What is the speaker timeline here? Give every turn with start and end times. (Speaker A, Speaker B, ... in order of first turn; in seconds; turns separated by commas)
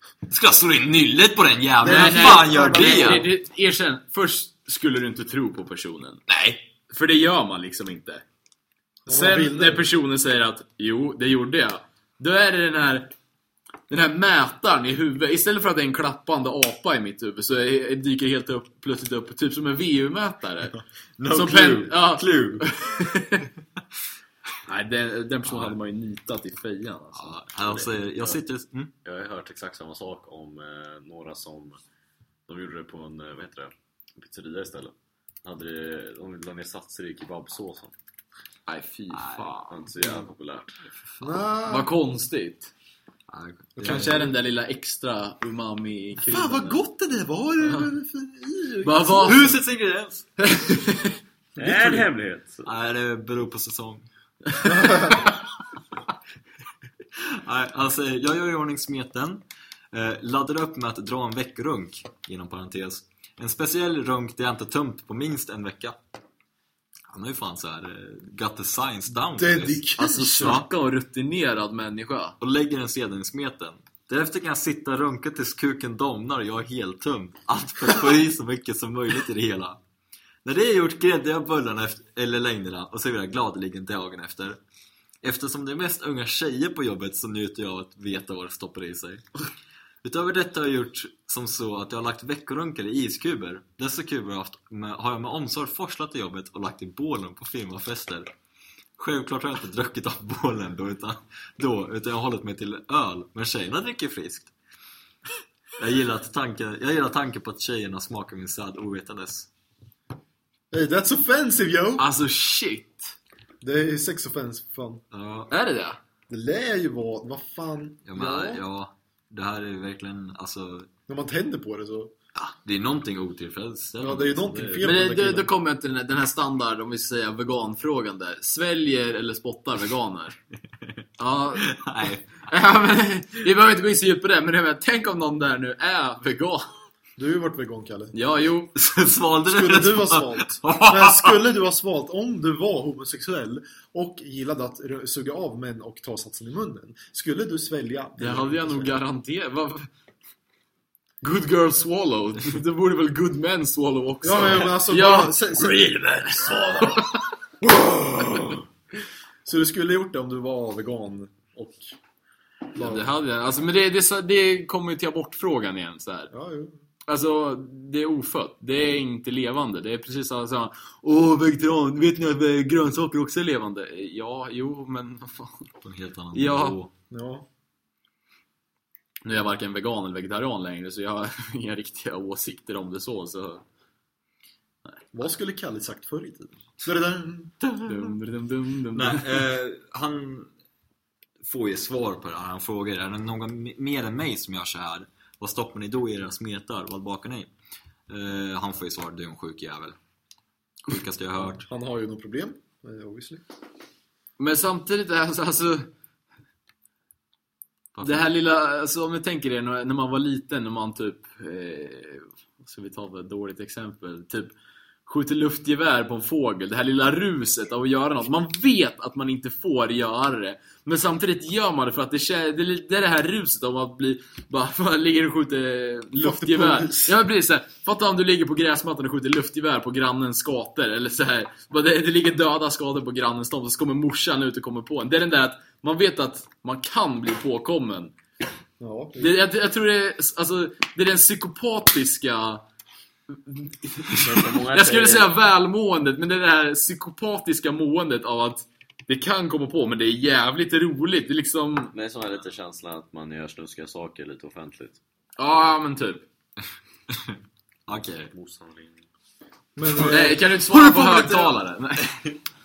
Speaker A: 0.3-3.3, Speaker B: 1.8-3.3, Speaker C: 1.8-6.2, Speaker A: 6.3-6.6, Speaker C: 6.9-8.2, Speaker B: 9.1-9.8, Speaker C: 9.1-13.1, Speaker C: 13.9-20.8, Speaker A: 21.2-22.7, Speaker C: 21.3-23.5, Speaker C: 24.6-28.4, Speaker A: 25.4-25.8, Speaker A: 27.1-28.9, Speaker D: 29.0-31.8, Speaker D: 32.5-37.9, Speaker C: 38.7-40.2, Speaker A: 39.1-39.5, Speaker D: 39.7-40.7, Speaker A: 41.1-41.4, Speaker B: 41.2-41.9, Speaker C: 41.6-42.7, Speaker A: 43.3-44.3, Speaker B: 43.8-44.3, Speaker C: 43.8-46.8, Speaker B: 46.2-49.6, Speaker C: 48.8-49.4, Speaker A: 49.2-50.3, Speaker C: 50.4-51.2, Speaker D: 51.6-52.7, Speaker B: 51.6-51.9, Speaker A: 52.6-54.0, Speaker C: 54.5-55.3, Speaker B: 54.7-55.2, Speaker A: 57.1-66.0, Speaker A: 67.1-69.9, Speaker B: 69.3-70.6, Speaker C: 70.0-72.3, Speaker A: 70.4-70.7, Speaker A: 72.4-79.8, Speaker A: 80.4-84.6, Speaker A: 85.2-89.3, Speaker A: 90.0-98.3, Speaker A: 99.0-104.5, Speaker A: 105.8-109.5, Speaker B: 110.7-112.1, Speaker C: 112.0-113.1, Speaker B: 113.6-115.0, Speaker A: 115.1-115.5, Speaker C: 115.5-116.0, Speaker B: 116.3-118.6, Speaker A: 118.0-120.9, Speaker B: 121.1-122.1, Speaker A: 122.3-124.9, Speaker B: 124.0-125.5, Speaker C: 124.8-130.4, Speaker C: 131.2-131.7, Speaker A: 131.6-132.5, Speaker C: 132.4-136.7, Speaker B: 137.2-138.1, Speaker C: 138.1-138.7, Speaker A: 138.7-141.5, Speaker B: 139.4-148.9, Speaker C: 148.2-149.9, Speaker C: 151.2-157.3, Speaker B: 154.2-156.8, Speaker B: 157.6-158.6, Speaker B: 159.4-161.9, Speaker B: 162.7-163.1, Speaker C: 162.7-166.3, Speaker B: 166.3-166.8, Speaker C: 167.1-175.7, Speaker A: 175.8-176.9, Speaker C: 176.3-176.8, Speaker B: 177.1-177.4, Speaker C: 179.2-183.6, Speaker B: 185.1-187.6, Speaker C: 187.8-189.4, Speaker A: 188.9-190.5, Speaker A: 191.4-197.5, Speaker A: 198.1-200.0, Speaker A: 200.8-201.7, Speaker B: 201.4-203.4, Speaker C: 204.4-205.9, Speaker A: 207.9-208.3, Speaker C: 208.0-214.5, Speaker C: 215.1-238.1, Speaker B: 226.1-227.2, Speaker B: 238.8-239.4, Speaker C: 239.2-242.6, Speaker C: 243.3-251.9, Speaker D: 244.1-245.3, Speaker D: 251.9-255.0, Speaker C: 255.4-256.2, Speaker A: 257.1-258.3, Speaker D: 258.3-259.0, Speaker B: 259.8-261.6, Speaker C: 259.9-262.2